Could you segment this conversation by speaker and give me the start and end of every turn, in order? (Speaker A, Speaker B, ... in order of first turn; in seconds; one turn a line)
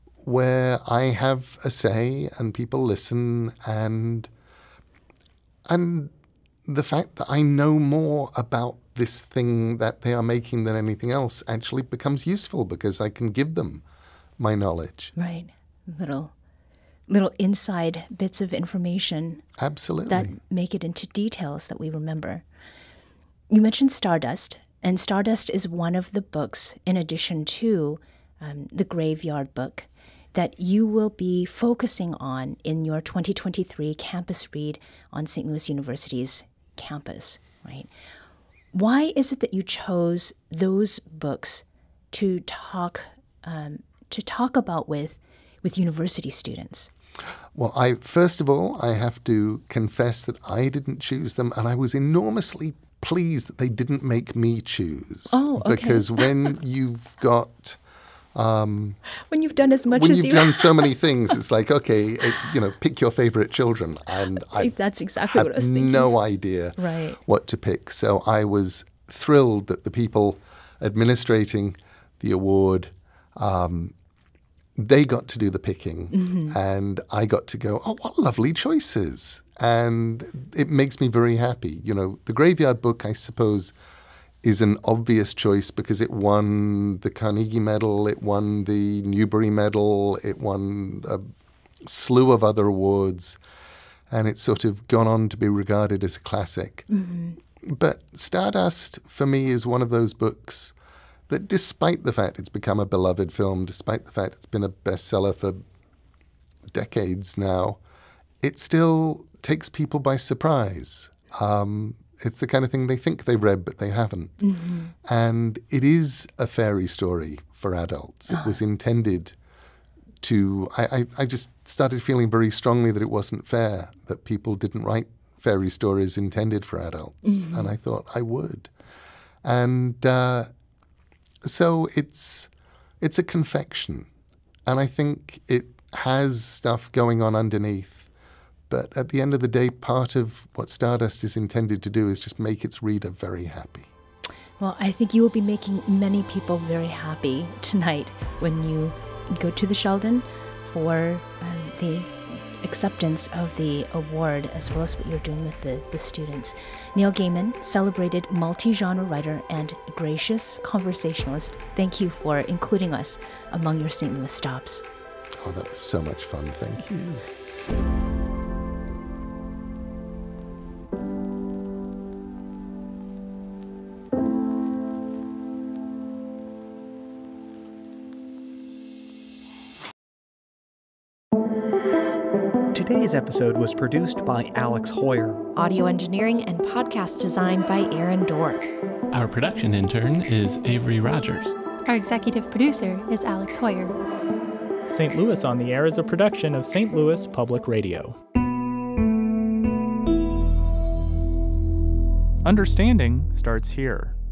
Speaker A: 0.2-4.3
Speaker A: 5.7-6.1
Speaker A: 6.7-13.8
Speaker A: 14.4-15.1
Speaker B: 15.2-16.3
Speaker B: 17.1-19.4
Speaker A: 19.6-20.4
Speaker B: 20.1-22.4
Speaker B: 23.5-37.9
Speaker B: 38.7-46.9
Speaker A: 47.5-57.8
Speaker B: 55.3-56.3
Speaker A: 58.4-59.0
Speaker B: 59.3-60.9
Speaker A: 59.9-73.9
Speaker B: 64.5-66.1
Speaker B: 66.8-67.2
Speaker A: 74.8-83.7
Speaker B: 76.1-76.6
Speaker A: 84.4-91.3
Speaker A: 91.8-93.4
Speaker A: 94.1-96.9
Speaker B: 96.9-97.4
Speaker A: 97.6-100.7
Speaker A: 101.3-105.6
Speaker A: 106.7-107.8
Speaker A: 108.4-114.4
Speaker B: 114.4-114.9
Speaker A: 115.0-119.3
Speaker B: 118.3-118.6
Speaker A: 120.2-128.7
Speaker B: 127.3-127.7
Speaker A: 129.4-130.5
Speaker A: 131.4-134.1
Speaker A: 134.7-138.1
Speaker A: 138.7-143.9
Speaker B: 144.6-164.9
Speaker A: 165.4-167.2
Speaker C: 182.7-185.4
Speaker D: 185.5-188.7
Speaker E: 189.1-191.6
Speaker F: 191.9-193.9
Speaker G: 194.9-198.2
Speaker G: 202.4-204.2